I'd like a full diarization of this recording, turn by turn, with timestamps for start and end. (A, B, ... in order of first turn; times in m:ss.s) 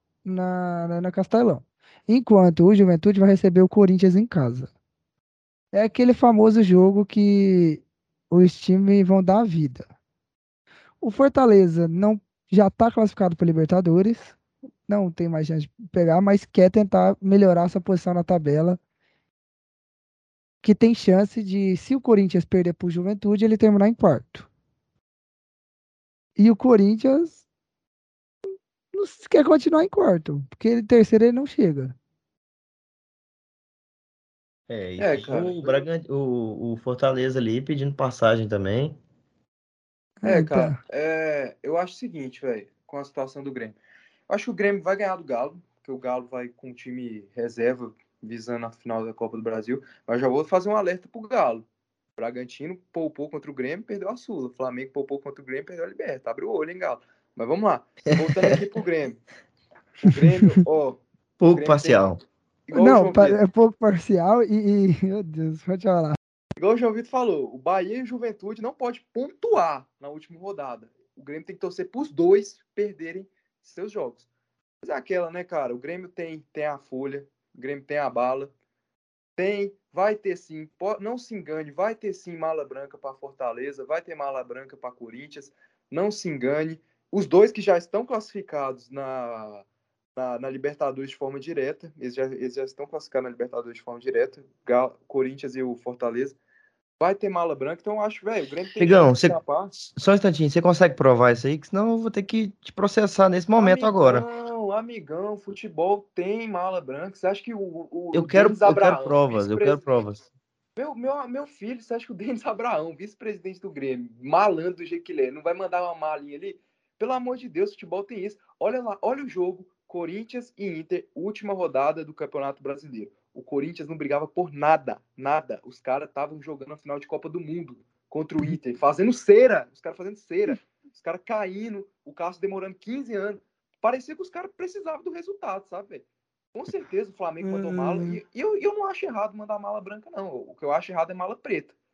0:00.2-0:04.7 A
0:05.7-0:09.9 A
0:11.0-0:18.8 A
0:20.6-0:24.5 A
0:26.4-0:27.4 A
0:28.9-0:31.9 A
0:34.7-0:39.0 B
0:35.0-0:35.8 C
0:40.2-0:40.8 A
0:40.2-0:43.8 C
0:44.3-0:51.6 C
0:52.2-0:59.2 C
1:00.0-1:01.0 C
1:01.4-1:02.2 B
1:01.5-1:02.1 C
1:02.7-1:03.4 C
1:02.7-1:06.2 A
1:06.6-1:14.2 C
1:14.8-1:18.5 C
1:19.4-1:29.6 C
1:30.2-1:36.4 C
1:37.0-1:39.7 C
1:38.8-1:44.2 B
1:43.6-1:49.8 C
1:48.1-1:50.2 B
1:50.8-2:21.7 C
2:17.5-2:18.2 A